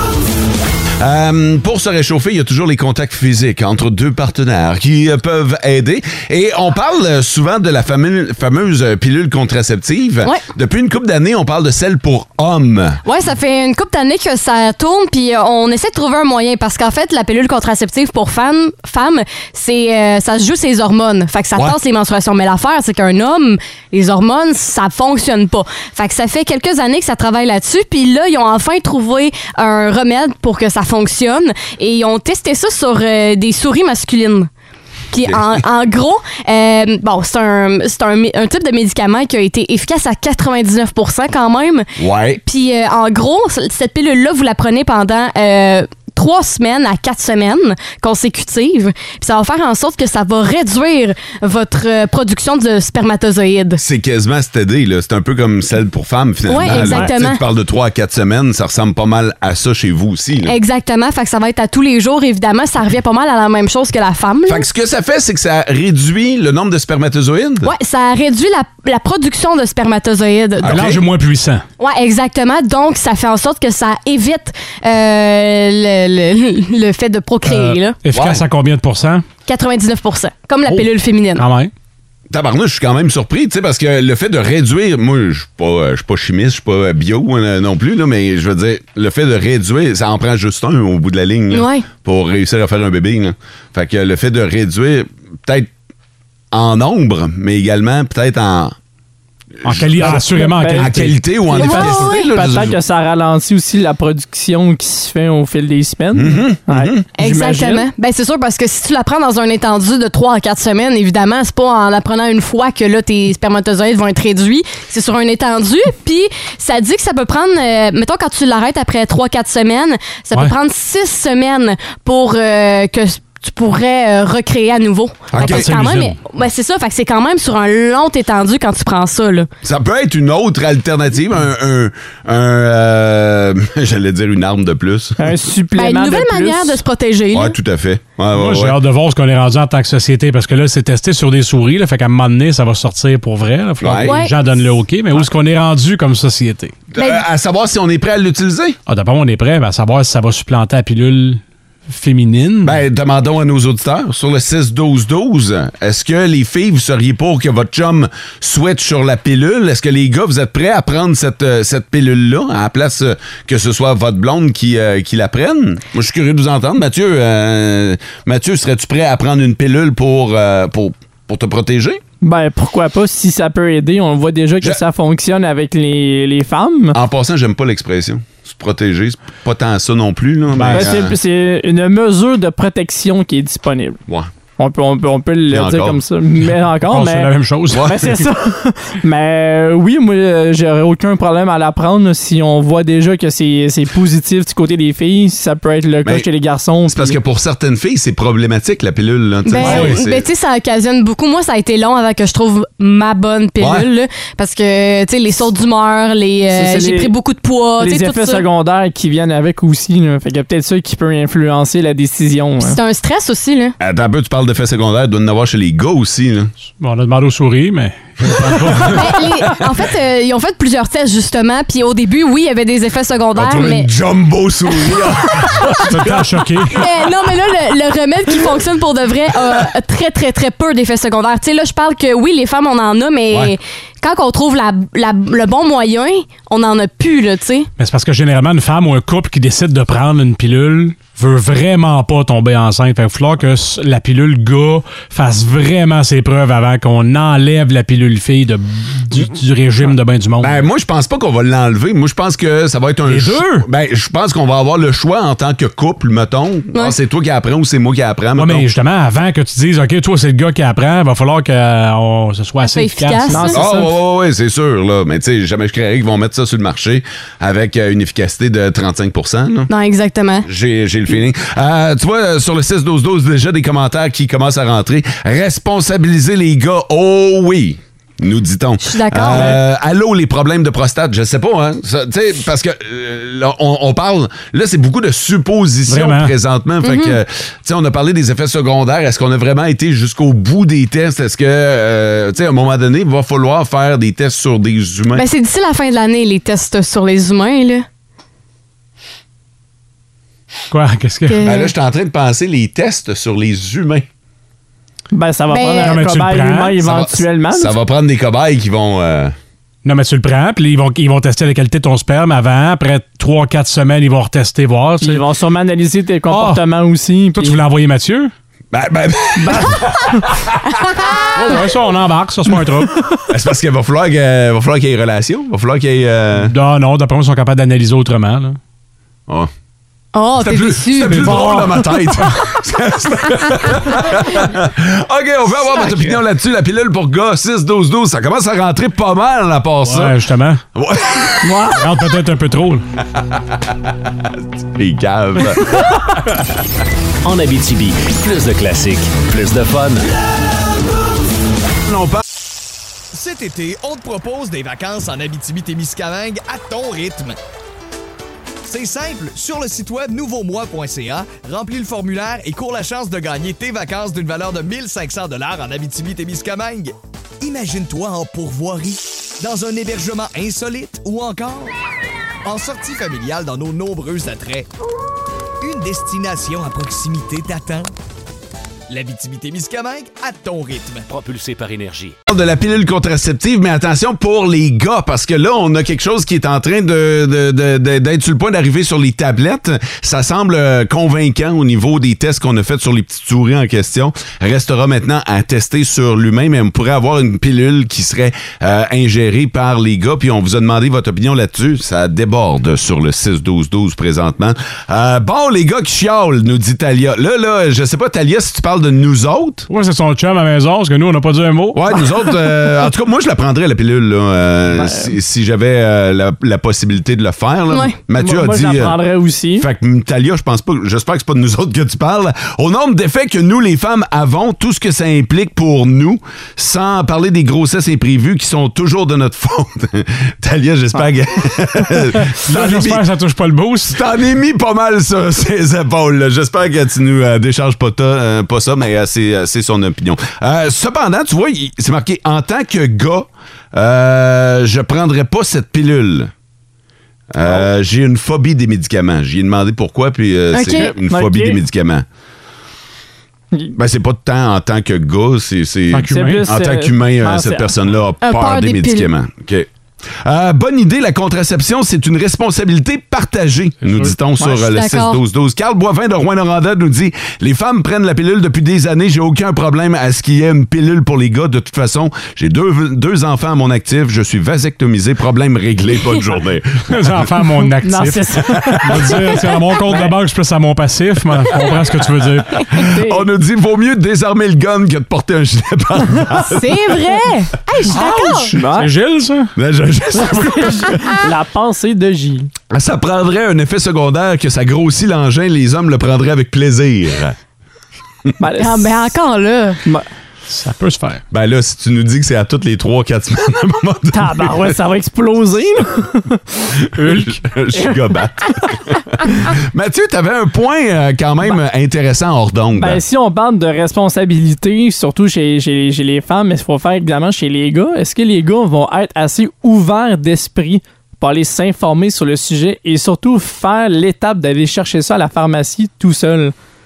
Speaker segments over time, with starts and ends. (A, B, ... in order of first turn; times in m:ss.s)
0:01.0-0:13.0 A
0:13.0-0:34.5 B
0:35.1-0:41.9 B
0:35.2-0:35.6 A
0:42.0-0:42.4 A
0:42.4-0:53.8 B
0:53.8-1:00.6 A
0:56.5-0:57.4 B
0:56.6-0:57.0 C
1:00.5-1:04.6 B
1:04.5-1:07.7 A
1:07.6-1:10.8 B
1:10.6-1:11.0 A
1:10.6-1:11.6 D
1:11.8-1:18.0 B
1:17.4-1:19.2 D
1:18.1-1:18.4 A
1:19.5-1:21.4 B
1:21.4-1:21.7 D
1:22.3-1:35.7 A
1:31.5-1:31.9 B
1:36.5-1:38.8 A
1:39.6-1:41.3 D
1:39.6-1:42.8 A
1:40.0-1:47.9 C
1:41.6-1:42.3 B
1:46.1-1:47.0 A
1:47.2-2:09.5 B
2:05.3-2:05.7 A
2:05.4-2:06.2 D
2:09.6-2:15.5 A
2:15.2-2:16.8 C
2:15.8-2:17.6 B
2:17.3-2:18.8 A
2:18.3-2:26.8 D
2:23.8-2:24.2 A
2:24.0-2:24.3 B
2:26.9-2:28.8 A
2:27.0-2:27.2 B
2:28.9-2:32.8 D
2:32.6-2:52.0 A
2:52.2-2:57.0 C
2:56.9-3:01.2 A
3:00.5-3:01.0 D
3:00.7-3:04.0 C
3:04.6-3:17.2 C
3:05.5-3:06.0 A
3:06.8-3:08.2 D
3:07.7-3:08.1 A
3:16.9-3:20.3 A
3:19.5-3:28.4 B
3:19.6-3:20.0 D
3:23.6-3:23.9 A
3:26.5-3:27.1 C
3:27.8-3:32.8 C
3:32.6-3:33.8 B
3:33.8-3:36.5 A
3:36.8-3:39.2 D
3:38.9-3:43.9 B
3:43.4-3:46.3 A
3:45.7-3:46.8 D
3:46.7-3:57.7 B
3:57.8-4:10.6 D
4:10.4-4:18.7 A
4:13.1-4:13.7 D
4:18.4-4:23.9 D
4:22.6-4:23.6 B
4:23.3-4:23.8 C
4:23.5-4:29.7 A
4:29.7-4:30.5 B
4:30.4-4:55.2 A
4:38.8-4:39.6 B
4:45.9-4:46.3 D
4:46.8-4:47.2 B
4:55.1-4:57.9 B
5:00.7-5:01.5 D
5:01.3-5:01.7 B
5:01.4-5:04.1 A
5:05.1-5:07.8 C
5:05.5-5:06.0 B
5:05.8-5:06.8 D
5:06.8-5:09.4 A
5:09.8-5:15.2 D
5:15.0-5:17.6 C
5:16.3-5:16.6 D
5:17.4-5:18.3 D
5:18.7-5:20.5 A
5:19.4-5:19.8 C
5:21.3-5:23.0 D
5:23.3-5:26.5 A
5:26.4-5:28.6 D
5:30.1-5:31.4 B
5:30.4-5:40.2 A
5:31.1-5:31.4 D
5:31.3-5:31.7 C
5:39.8-5:40.6 D
5:40.8-5:41.6 A
5:41.4-5:41.8 C
5:41.7-5:42.8 D
5:43.2-5:45.9 A
5:47.2-5:50.1 E
5:51.9-5:52.2 A
5:53.1-5:57.4 F
5:58.6-6:11.7 F
6:12.4-6:14.7 F
6:15.6-6:17.9 F
6:18.9-6:21.1 F
6:21.1-6:22.2 E
6:22.3-6:49.7 A
6:49.7-6:51.9 D
6:51.7-6:59.0 A
6:54.7-6:55.1 C
6:57.7-6:58.0 B
6:58.2-6:59.7 C
6:59.6-7:13.0 A
7:12.3-7:14.0 D
7:13.9-7:26.3 A
7:27.3-7:32.1 A
7:30.5-7:30.9 B
7:30.7-7:31.6 C
7:33.8-7:39.7 A
7:35.9-7:36.5 D
7:36.1-7:37.7 C
7:38.2-7:39.1 B
7:40.2-7:57.4 A
7:43.9-7:44.1 D
7:44.5-7:45.2 B
7:56.9-8:02.8 D
7:57.8-8:00.2 C
7:58.4-7:59.4 A
8:02.7-8:07.0 A
8:02.8-8:03.3 C
8:06.4-8:08.5 B
8:07.9-8:08.4 A
8:08.2-8:08.9 C
8:08.6-8:09.5 D
8:09.6-8:11.1 A
8:10.2-8:12.5 C
8:12.7-8:17.4 A
8:18.4-8:19.1 C
8:18.6-8:19.8 B
8:20.5-8:21.2 D
8:21.3-8:24.8 A
8:24.1-8:26.4 C
8:27.0-8:33.0 A
8:27.0-8:27.3 D
8:27.8-8:28.0 C
8:32.8-8:46.5 C